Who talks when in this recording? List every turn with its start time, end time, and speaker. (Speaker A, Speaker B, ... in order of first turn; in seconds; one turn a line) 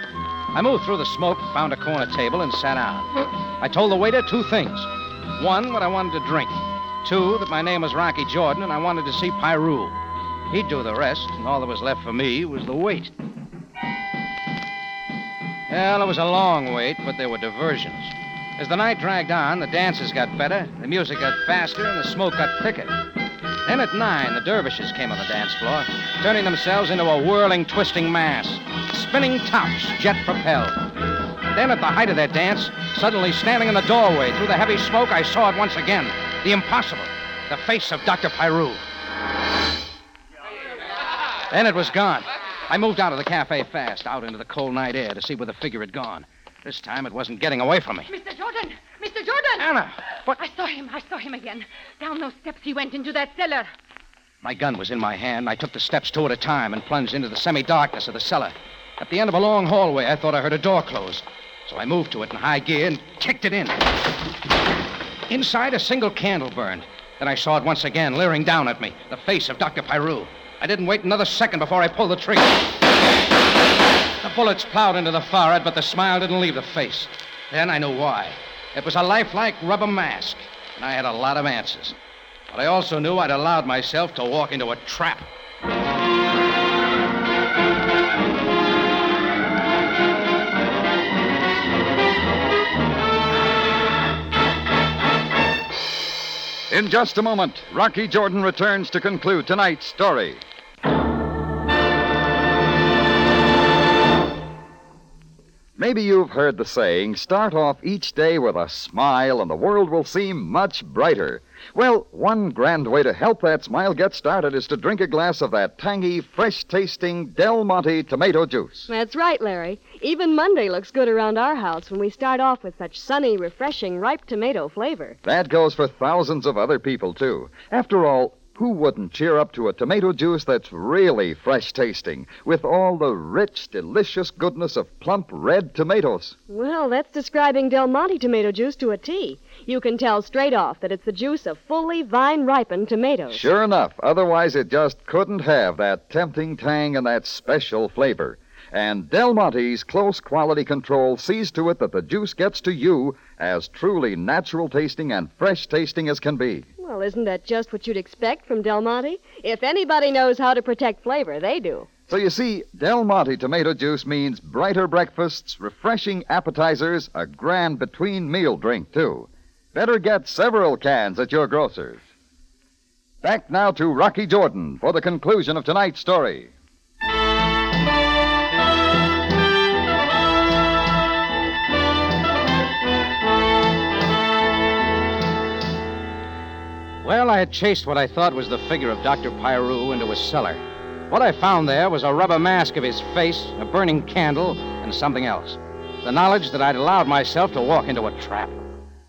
Speaker A: 0.5-10.0
Speaker A: 10.5-13.1
Speaker A: 15.7-22.9
Speaker A: 23.6-30.8
Speaker A: 31.5-38.8
Speaker A: 41.5-48.1
Speaker B: 48.1-49.7
Speaker A: 49.6-50.1
Speaker B: 50.2-53.7
Speaker A: 54.4-63.8
Speaker A: 65.3-72.7
Speaker A: 74.2-82.0
Speaker A: 82.5-85.3
Speaker C: 96.7-100.4
Speaker C: 105.8-118.9
Speaker D: 118.9-125.2
Speaker C: 125.2-136.4
Speaker D: 136.5-143.5
Speaker C: 143.3-156.7
Speaker D: 156.8-161.9
Speaker C: 162.1-172.1
Speaker C: 173.2-176.5
Speaker A: 187.0-198.6